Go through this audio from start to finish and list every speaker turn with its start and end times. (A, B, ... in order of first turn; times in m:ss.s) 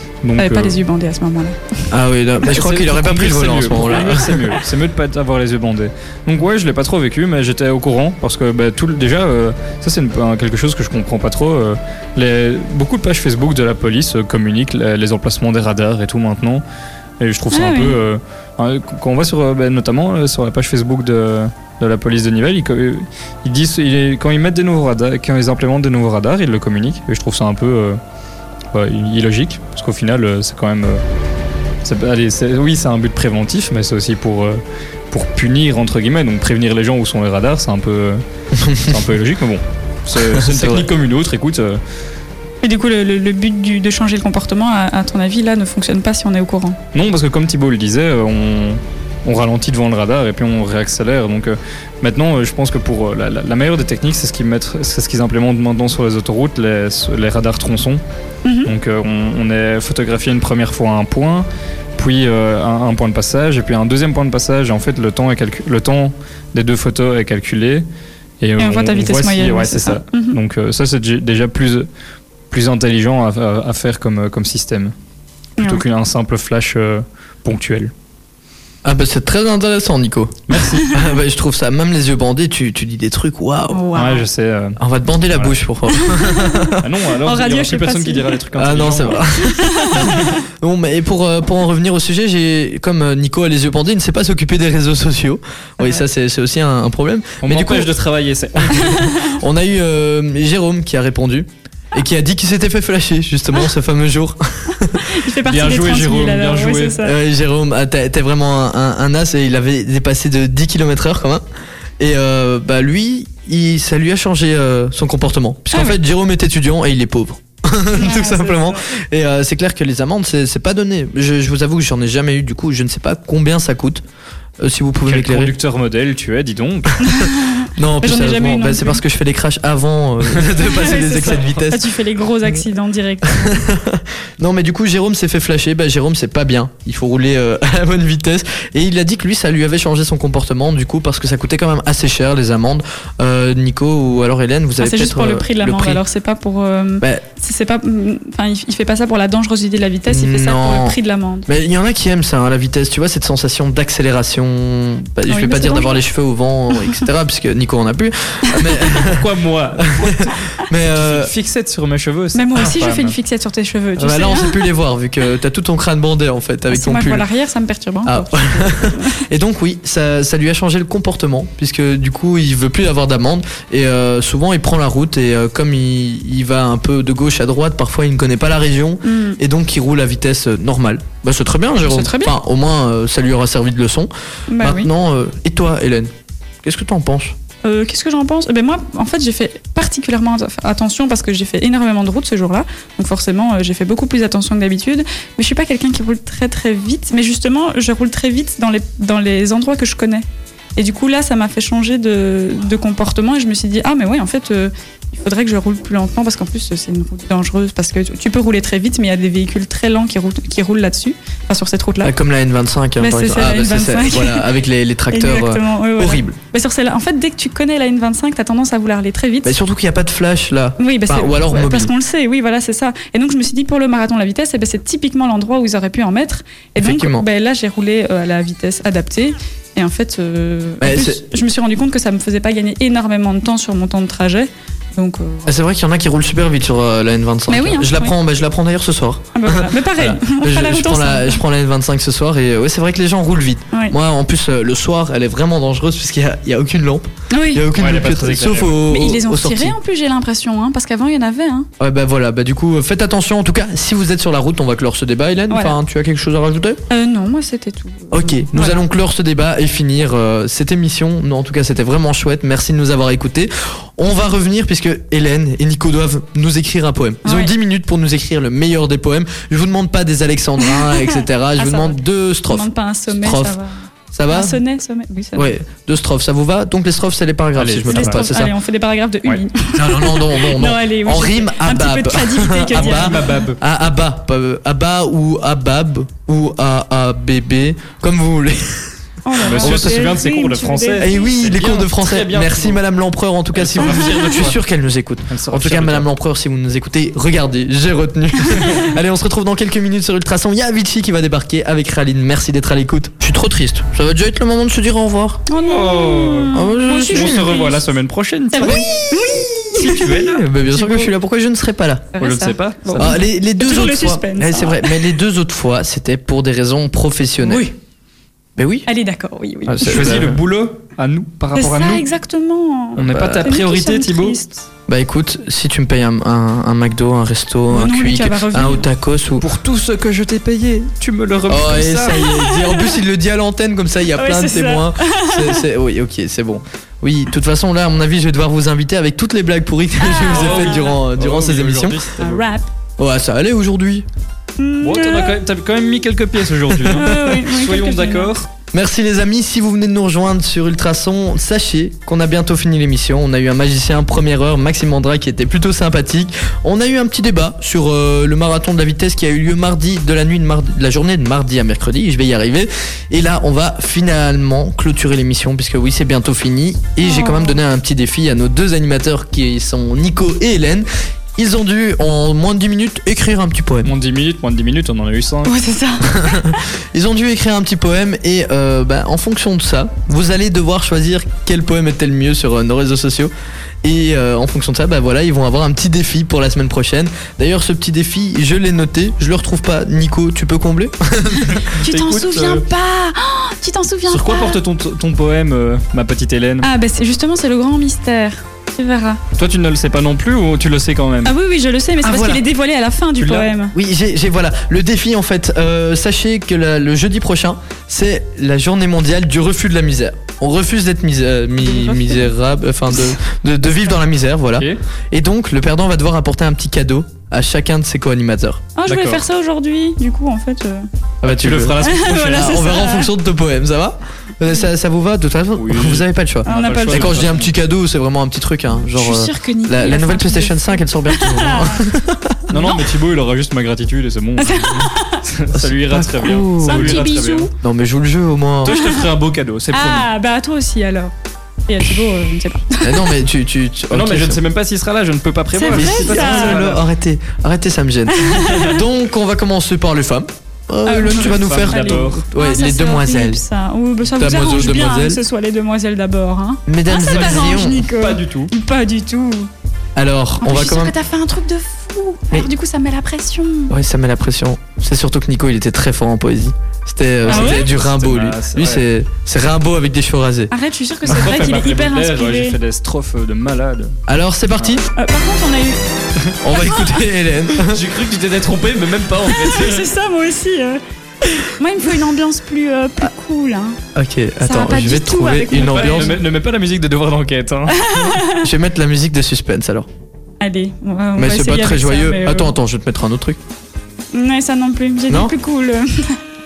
0:00.2-0:00.8 A
0:00.4-0:01.8 B
0:01.9-0:04.5 C
0:02.5-0:16.6 A
0:17.2-0:28.0 A
0:17.5-0:18.0 B
0:28.7-0:31.0 A
0:31.8-0:38.2 A
0:38.6-0:39.0 C
0:38.8-0:41.8 A
0:40.3-0:40.9 C
0:42.6-0:46.8 B
0:46.9-0:58.0 A
0:58.4-0:58.7 B
0:58.6-1:07.8 A
1:08.4-1:11.9 A
1:08.6-1:10.4 B
1:12.5-1:14.9 A
1:15.6-1:15.8 B
1:15.6-1:17.9 A
1:18.8-1:23.9 C
1:20.5-1:20.9 A
1:23.7-1:24.2 B
1:24.0-1:24.8 A
1:24.8-1:26.8 C
1:25.9-1:26.6 B
1:26.8-1:29.4 A
1:27.2-1:28.4 B
1:28.6-1:37.9 C
1:29.5-1:30.4 B
1:35.8-1:36.0 B
1:37.4-1:39.1 A
1:38.6-1:45.1 C
1:38.8-1:39.4 B
1:45.0-1:47.2 B
1:45.5-1:47.0 A
1:47.0-1:51.4 C
1:52.0-2:04.0 C
1:55.7-1:56.0 B
1:57.9-1:58.8 B
2:04.6-2:05.6 C
2:05.1-2:07.0 A
2:07.0-2:09.0 B
2:07.7-2:11.8 C
2:10.6-2:13.6 B
2:11.2-2:11.5 A
2:13.3-2:26.0 C
2:24.8-2:31.5 B
2:30.1-2:39.3 C
2:35.3-2:36.0 B
2:39.0-2:40.3 A
2:39.8-2:41.3 C
2:40.9-2:43.2 A
2:42.3-2:44.7 B
2:44.0-2:47.2 C
2:46.7-2:49.2 B
2:48.1-3:06.1 C
2:59.0-2:59.4 B
3:01.8-3:02.4 B
3:04.5-3:04.9 B
3:06.6-3:07.4 C
3:07.6-3:32.1 B
3:32.0-3:36.4 C
3:33.0-3:34.5 B
3:35.1-3:39.6 B
3:39.4-3:41.9 C
3:40.8-3:55.5 B
3:46.8-3:47.2 C
3:50.8-3:51.2 C
3:55.5-4:09.8 C
3:57.5-3:58.1 B
3:59.4-4:01.4 B
4:07.3-4:07.7 B
4:07.7-4:08.9 A
4:08.8-4:11.7 B
4:11.8-4:16.8 C
4:15.5-4:15.8 B
4:16.9-4:18.8 B
4:18.1-4:33.6 C
4:27.2-4:27.6 B
4:30.6-4:35.6 B
4:34.1-4:34.6 C
4:35.4-4:38.5 C
4:37.6-4:38.2 A
4:37.9-4:43.4 B
4:39.7-4:49.0 C
4:42.7-4:43.6 A
4:49.2-4:51.3 B
4:49.4-4:52.8 A
4:49.5-4:50.1 C
4:51.0-5:05.4 C
4:53.6-4:54.6 A
4:55.3-4:56.1 A
5:05.5-5:07.8 B
5:05.6-5:08.9 A
5:06.5-5:07.6 C
5:08.5-5:10.1 B
5:08.6-5:12.1 C
5:09.8-5:11.1 A
5:12.2-5:15.1 B
5:12.2-5:13.2 A
5:13.0-5:17.7 C
5:17.4-5:17.7 A
5:18.6-5:18.9 C
5:18.9-5:20.3 B
5:19.7-5:20.4 C
5:19.8-5:22.0 A
5:21.6-5:24.7 B
5:23.0-5:24.4 A
5:23.0-5:23.5 C
5:24.9-5:29.5 C
5:27.7-5:28.9 B
5:29.4-5:32.2 A
5:31.5-5:42.1 C
5:32.1-5:33.0 B
5:34.1-5:35.6 B
5:40.0-5:41.0 B
5:40.3-5:42.4 A
5:42.2-5:42.6 B
5:43.0-5:44.0 C
5:44.6-5:45.4 B
5:44.8-5:48.5 A
5:46.9-5:48.3 B
5:48.7-6:13.9 C
6:07.0-6:07.6 B
6:13.8-6:15.6 A
6:15.5-6:16.6 B
6:16.0-6:23.3 C
6:23.8-6:31.6 C
6:31.8-6:32.6 A
6:31.8-6:34.6 B
6:34.1-6:36.7 A
6:36.6-6:39.2 B
6:39.4-6:41.3 A
6:41.2-6:43.8 B
6:42.0-6:42.4 C
6:43.2-6:58.7 C
6:51.6-6:52.3 B
6:58.8-7:00.9 B
6:58.9-6:59.2 A
7:01.2-7:12.7 C
7:01.2-7:02.6 A
7:01.8-7:03.1 B
7:05.6-7:07.5 A
7:06.5-7:07.3 B
7:08.9-7:11.9 B
7:12.5-7:17.5 A
7:12.6-7:12.9 B
7:14.4-7:15.2 B
7:15.5-7:18.8 C
7:16.5-7:17.5 B
7:18.6-7:20.1 A
7:18.7-7:19.1 B
7:19.7-7:21.1 B
7:21.7-7:23.2 B
7:22.8-7:24.4 C
7:23.9-7:26.8 A
7:25.5-7:26.7 B
7:25.7-7:33.4 C
7:28.1-7:28.8 B
7:30.9-7:39.5 B
7:31.1-7:32.2 A
7:34.1-7:35.2 C
7:36.7-7:37.8 C
7:37.0-7:38.5 A
7:40.0-7:41.0 C
7:40.4-7:43.7 B
7:43.7-7:50.5 C
7:47.2-7:48.8 A
7:47.3-7:47.7 B
7:50.5-7:52.6 B
7:51.0-7:54.0 A
7:54.1-7:54.9 C
7:55.0-7:55.8 B
7:56.4-7:57.8 C
7:56.5-7:57.0 B
7:57.6-7:59.9 A
7:59.2-8:03.8 B
8:04.0-8:06.2 C
8:04.4-8:06.2 B
8:05.5-8:07.9 A
8:07.7-8:08.5 B
8:08.2-8:09.9 C
8:10.4-8:12.6 B
8:11.2-8:13.4 C
8:14.1-8:16.2 B